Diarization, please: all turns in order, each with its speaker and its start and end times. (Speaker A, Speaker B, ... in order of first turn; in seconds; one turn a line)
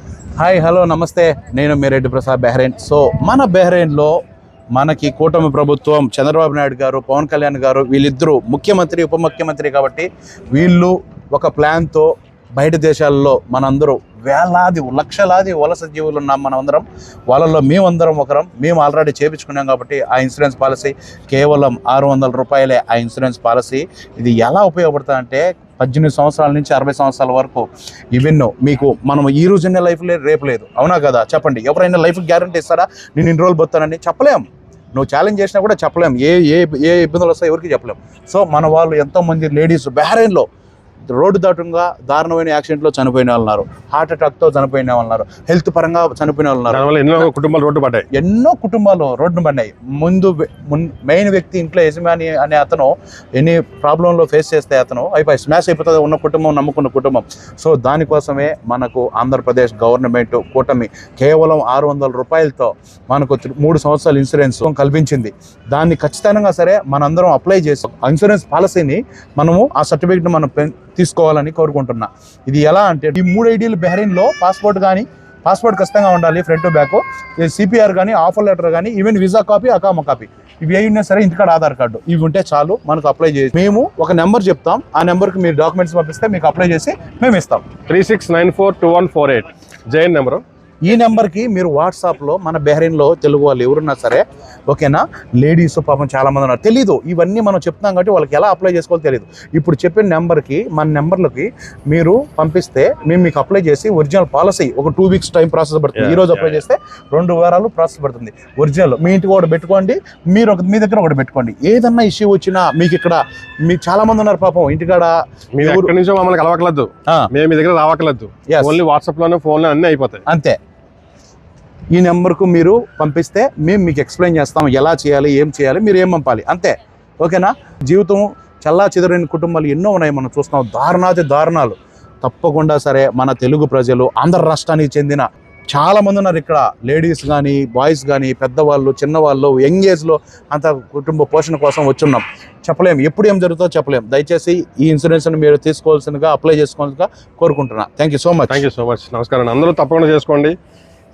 Speaker A: 0.4-4.1
Speaker A: 4.7-40.5
Speaker A: 41.1-47.2
Speaker B: 46.7-48.0
Speaker A: 48.1-87.7
Speaker B: 87.9-90.4
Speaker A: 90.8-115.9
Speaker B: 106.0-106.6
Speaker B: 115.5-120.2
Speaker A: 118.5-118.8
Speaker A: 120.3-120.6
Speaker A: 121.9-148.6
Speaker B: 148.5-150.5